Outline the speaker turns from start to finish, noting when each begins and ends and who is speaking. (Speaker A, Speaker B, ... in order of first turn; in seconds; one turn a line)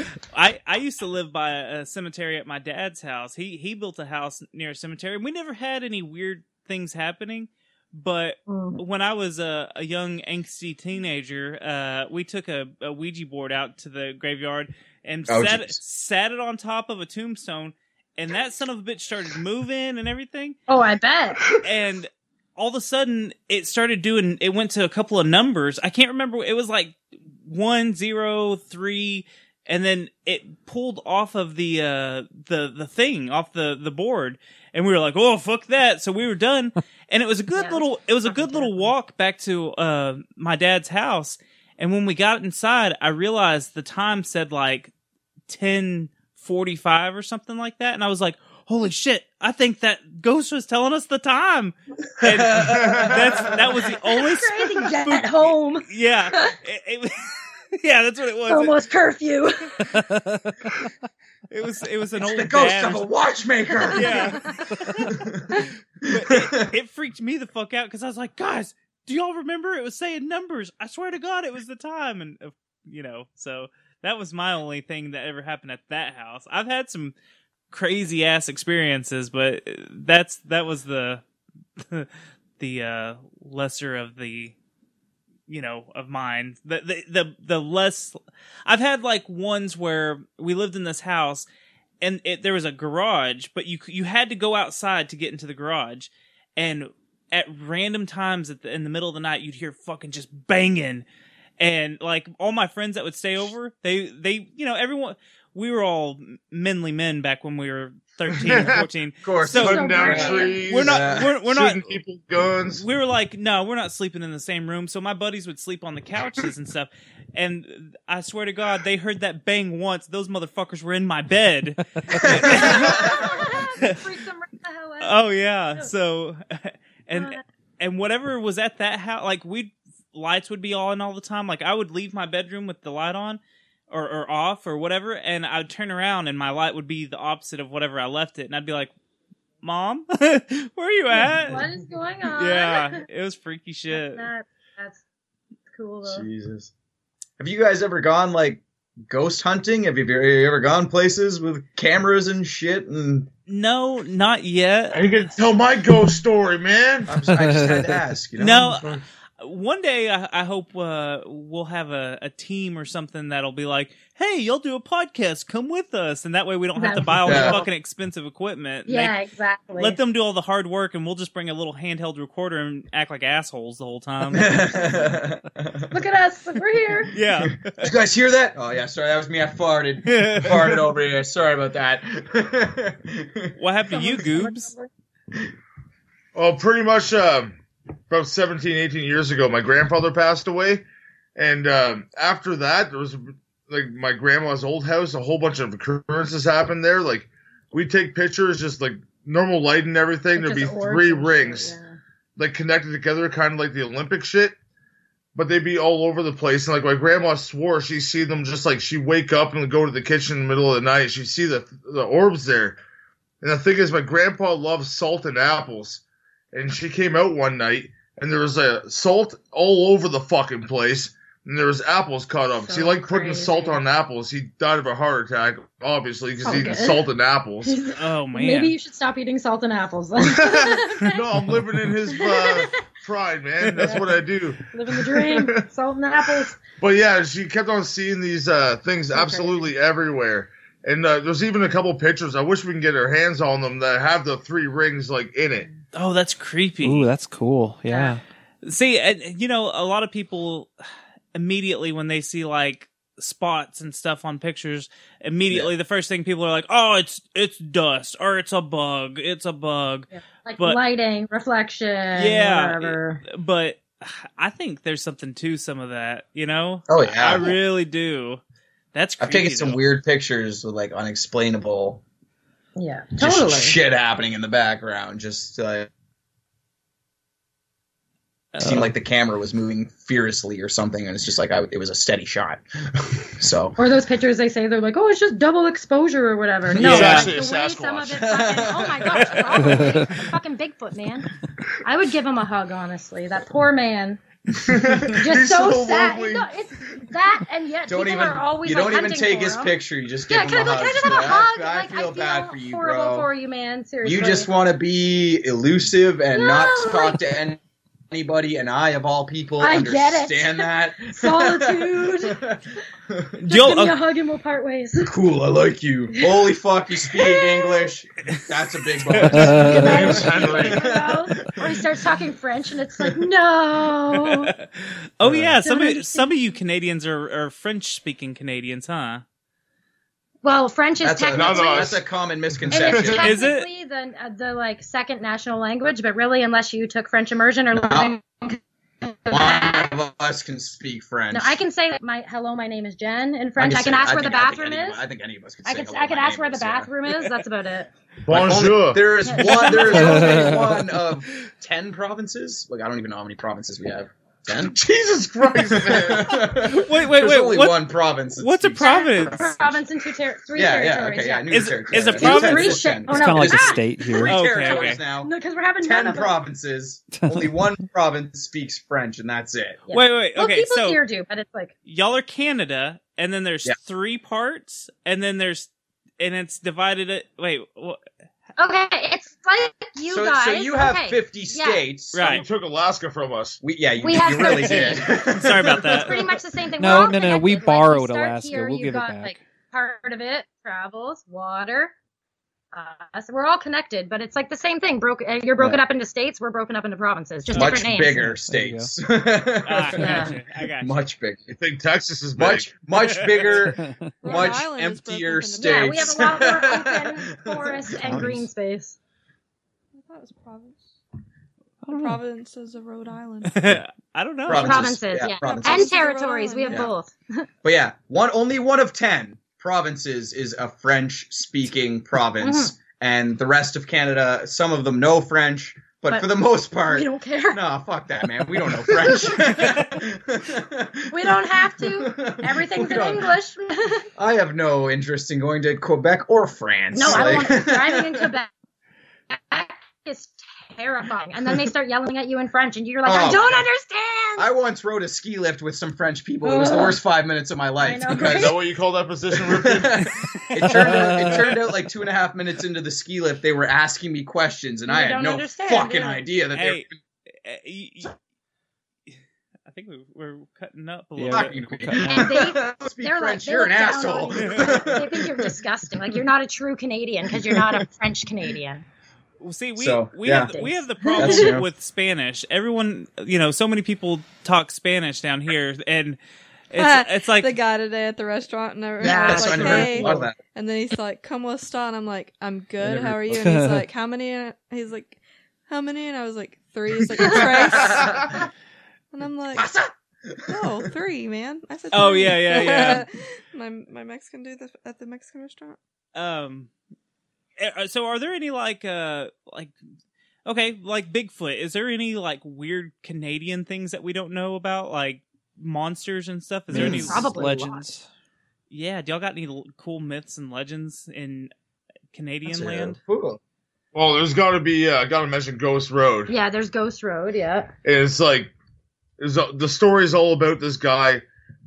Speaker A: 0.3-20.6
Speaker B: 8.5-8.8
Speaker C: 15.3-15.8
Speaker B: 20.7-21.4
Speaker A: 21.6-44.9
Speaker B: 37.5-38.9
Speaker A: 45.5-58.8
Speaker C: 52.2-53.7
Speaker B: 54.0-56.5
Speaker B: 58.5-59.7
Speaker A: 61.5-63.1
Speaker C: 62.2-64.4
Speaker B: 63.9-64.5
Speaker A: 63.9-64.5
Speaker C: 65.0-66.7
Speaker A: 66.1-77.1
Speaker A: 77.7-81.2
Speaker A: 81.8-84.5
Speaker A: 85.5-91.5
Speaker A: 92.0-101.0
Speaker A: 101.6-112.0
Speaker D: 108.3-108.8
Speaker C: 109.2-111.3
Speaker B: 109.5-110.6
Speaker D: 109.5-112.8
Speaker A: 112.8-124.0
Speaker C: 122.2-123.2
Speaker B: 122.4-125.2
Speaker A: 125.0-138.9
Speaker B: 127.1-127.4
Speaker A: 139.6-141.6
Speaker B: 141.1-143.0
Speaker A: 142.3-144.3
Speaker B: 143.9-145.0
Speaker B: 145.7-146.2
Speaker C: 146.0-146.7
Speaker C: 147.4-153.3
Speaker A: 153.5-155.2
Speaker D: 154.9-157.1
Speaker C: 157.1-159.0
Speaker E: 157.2-158.0
Speaker A: 158.4-169.1
Speaker B: 166.8-167.7
Speaker C: 167.2-167.6
Speaker B: 168.9-170.0
Speaker A: 169.8-174.8
Speaker C: 174.3-175.9
Speaker B: 175.9-177.1
Speaker A: 177.1-177.9
Speaker C: 177.4-183.5
Speaker A: 180.1-180.8
Speaker A: 183.6-184.7
Speaker B: 183.9-184.9
Speaker D: 186.3-187.5
Speaker D: 188.1-190.8
Speaker D: 191.3-201.7
Speaker B: 200.3-202.0
Speaker D: 202.4-204.5
Speaker D: 205.3-212.8
Speaker D: 213.4-216.0
Speaker D: 216.5-227.8
Speaker B: 222.6-223.8
Speaker B: 226.4-227.0
Speaker B: 227.6-231.2
Speaker A: 228.0-228.7
Speaker D: 230.2-235.6
Speaker B: 232.1-232.7
Speaker B: 233.8-236.6
Speaker D: 236.7-245.7
Speaker B: 239.1-239.7
Speaker A: 245.9-247.1
Speaker E: 246.8-248.2
Speaker B: 247.9-248.1
Speaker A: 248.6-250.7
Speaker A: 251.3-260.8
Speaker B: 260.1-263.2
Speaker A: 262.1-268.4
Speaker C: 266.9-267.5
Speaker A: 268.9-269.8
Speaker C: 269.2-272.0
Speaker B: 272.8-273.8
Speaker C: 273.2-275.9
Speaker C: 278.6-282.6
Speaker C: 283.4-283.8
Speaker B: 283.8-291.3
Speaker D: 286.8-288.3
Speaker A: 286.8-287.3
Speaker C: 288.2-289.8
Speaker B: 291.8-294.2
Speaker D: 294.6-296.5
Speaker B: 295.1-299.8
Speaker C: 297.9-303.3
Speaker B: 300.3-304.5
Speaker C: 304.0-307.6
Speaker B: 306.3-307.2
Speaker C: 308.1-313.3
Speaker B: 309.6-312.4
Speaker A: 313.4-313.9
Speaker B: 313.5-315.1
Speaker C: 315.0-321.5
Speaker B: 317.1-317.9
Speaker A: 319.1-319.5
Speaker E: 319.3-320.0
Speaker B: 319.4-324.5
Speaker D: 319.8-320.9
Speaker A: 324.1-324.4
Speaker A: 325.2-329.2
Speaker E: 325.2-325.5
Speaker B: 325.6-326.3
Speaker B: 330.4-331.8
Speaker C: 331.0-333.3
Speaker D: 331.3-332.0
Speaker B: 332.7-338.6
Speaker D: 332.7-333.2
Speaker A: 333.2-333.7
Speaker C: 337.8-338.1
Speaker B: 339.2-339.9
Speaker C: 339.3-341.6
Speaker B: 341.3-345.0
Speaker C: 343.6-346.9
Speaker B: 345.6-347.9
Speaker D: 348.2-349.1
Speaker C: 348.3-354.7
Speaker B: 349.2-350.6
Speaker D: 354.6-356.5
Speaker C: 355.7-359.8
Speaker A: 356.6-359.6
Speaker B: 358.8-361.5
Speaker C: 360.5-369.8
Speaker A: 361.5-362.9
Speaker B: 362.1-366.4
Speaker E: 363.1-364.3
Speaker A: 364.2-365.0
Speaker E: 367.1-367.5
Speaker B: 369.9-371.7
Speaker A: 369.9-371.0
Speaker A: 371.8-378.0
Speaker B: 378.6-381.8
Speaker C: 380.1-382.4
Speaker A: 382.1-382.4
Speaker D: 382.2-383.6
Speaker C: 383.6-386.2
Speaker B: 384.0-385.1
Speaker A: 384.4-386.2
Speaker B: 386.0-391.9
Speaker E: 386.8-389.4
Speaker B: 392.7-398.3
Speaker C: 397.5-401.6
Speaker E: 398.0-398.9
Speaker A: 399.6-401.0
Speaker B: 399.9-400.3
Speaker D: 401.6-402.7
Speaker C: 402.4-408.4
Speaker A: 402.9-403.7
Speaker E: 403.8-404.4
Speaker F: 404.2-406.5
Speaker B: 405.6-408.9
Speaker F: 409.9-410.8
Speaker E: 411.8-412.2
Speaker F: 411.9-413.8
Speaker A: 413.4-414.9
Speaker C: 414.5-416.0
Speaker B: 414.5-417.5
Speaker F: 415.4-416.9
Speaker C: 417.6-433.3
Speaker B: 422.4-422.7
Speaker B: 426.9-427.6
Speaker B: 431.1-434.1
Speaker C: 434.2-438.3
Speaker B: 436.9-438.5
Speaker B: 439.3-444.5
Speaker C: 443.0-443.6
Speaker C: 444.4-448.6
Speaker B: 446.4-447.0
Speaker B: 447.8-448.6
Speaker D: 448.2-450.1
Speaker C: 449.3-456.9
Speaker E: 450.6-451.7
Speaker B: 454.9-456.2
Speaker A: 456.5-456.9
Speaker A: 457.4-458.1
Speaker A: 459.7-462.0
Speaker E: 461.2-462.3
Speaker C: 461.3-465.5
Speaker B: 462.0-468.8
Speaker A: 464.4-464.8
Speaker A: 469.4-476.2
Speaker C: 469.8-470.5
Speaker B: 470.3-471.6
Speaker C: 471.2-471.6
Speaker A: 476.7-477.6
Speaker F: 476.8-488.3
Speaker B: 479.0-480.3
Speaker C: 479.0-480.4
Speaker C: 482.8-483.1
Speaker E: 483.2-483.9
Speaker C: 487.2-488.2
Speaker F: 489.1-489.7
Speaker C: 489.5-490.9
Speaker F: 490.5-495.8
Speaker A: 491.9-493.1
Speaker A: 496.1-496.7
Speaker A: 497.6-499.7
Speaker A: 500.4-507.3
Speaker E: 506.7-508.1
Speaker B: 506.7-507.8
Speaker C: 506.8-507.0
Speaker A: 508.7-511.5
Speaker A: 512.1-513.0
Speaker C: 512.5-513.4
Speaker D: 513.9-516.3
Speaker B: 516.3-517.7
Speaker D: 517.8-518.5
Speaker D: 519.2-521.2